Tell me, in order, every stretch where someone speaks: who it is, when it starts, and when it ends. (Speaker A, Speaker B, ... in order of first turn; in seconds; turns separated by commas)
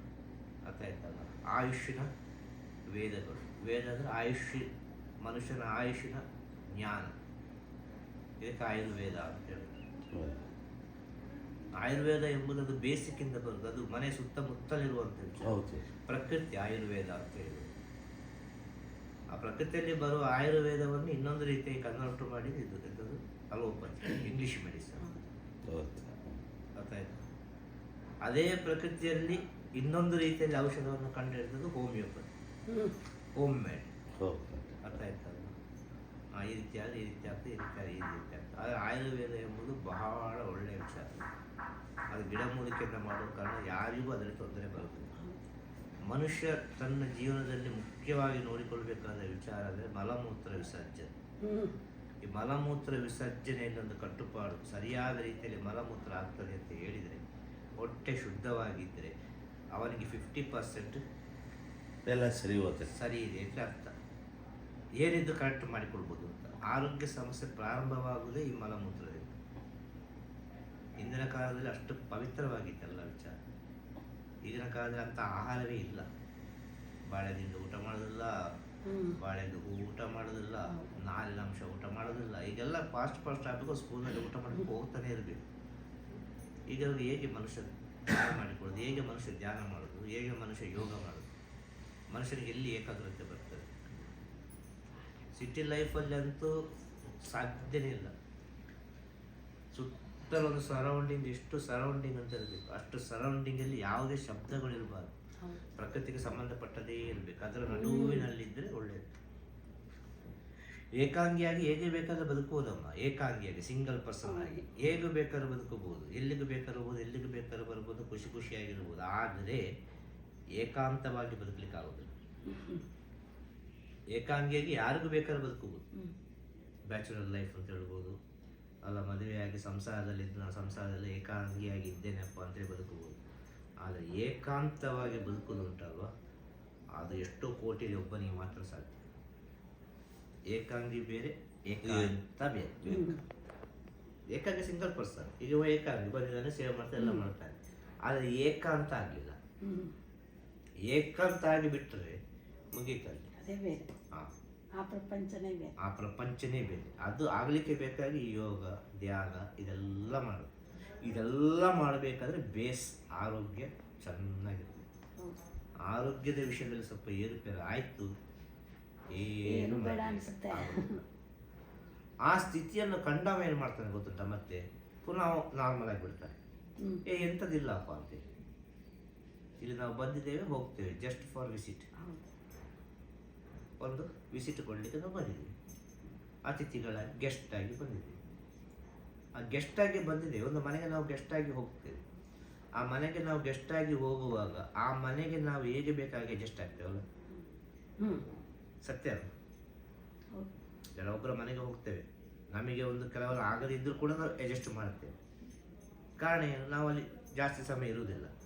Speaker A: 0.7-2.1, Speaker A: 2.9-4.7, Speaker A: 5.2-6.2, Speaker A: 6.8-7.2, Speaker A: 8.4-9.8, Speaker B: 10.1-10.4, Speaker A: 11.8-17.7, Speaker B: 15.4-15.8, Speaker A: 19.3-25.2, Speaker B: 25.7-26.4, Speaker A: 26.8-27.2, Speaker A: 28.2-32.3, Speaker C: 32.7-33.0, Speaker A: 33.4-33.9, Speaker B: 34.2-34.9, Speaker A: 34.8-35.6, Speaker A: 36.4-41.2, Speaker A: 42.1-45.1, Speaker A: 46.1-51.1, Speaker C: 51.4-51.8, Speaker A: 52.3-57.2, Speaker A: 57.8-59.1, Speaker A: 59.8-61.0, Speaker B: 62.1-62.9, Speaker A: 62.9-64.0, Speaker A: 65.0-69.3, Speaker A: 71.0-73.3, Speaker A: 74.5-76.1, Speaker A: 77.1-78.3, Speaker C: 78.9-79.2, Speaker A: 79.2-85.5, Speaker A: 86.7-91.3, Speaker A: 92.1-93.7, Speaker A: 95.3-96.5, Speaker A: 97.2-98.1, Speaker A: 99.7-105.1, Speaker A: 105.8-109.1, Speaker C: 107.7-108.3, Speaker A: 111.0-119.6, Speaker C: 114.3-114.6, Speaker A: 120.6-122.1, Speaker C: 122.5-122.8, Speaker A: 124.1-125.8, Speaker A: 126.9-128.2, Speaker A: 128.8-133.2, Speaker A: 133.8-136.1, Speaker A: 137.0-139.0, Speaker A: 140.5-143.2, Speaker B: 141.8-142.2, Speaker C: 142.9-143.2, Speaker A: 144.3-149.4, Speaker C: 147.0-147.3, Speaker C: 149.6-149.9, Speaker A: 150.8-152.2, Speaker A: 152.7-153.3, Speaker C: 153.4-153.9, Speaker C: 154.8-155.7, Speaker A: 155.8-160.5, Speaker A: 161.0-164.9, Speaker A: 165.9-168.1, Speaker A: 169.1-171.0, Speaker C: 169.5-171.0, Speaker A: 172.3-176.4, Speaker A: 177.1-178.2, Speaker A: 179.6-181.9, Speaker C: 182.0-182.2, Speaker A: 183.8-185.5, Speaker A: 186.5-188.2, Speaker A: 189.4-192.0, Speaker A: 192.8-197.0, Speaker C: 198.0-198.2, Speaker A: 198.8-199.3, Speaker A: 201.0-205.2, Speaker A: 206.2-208.3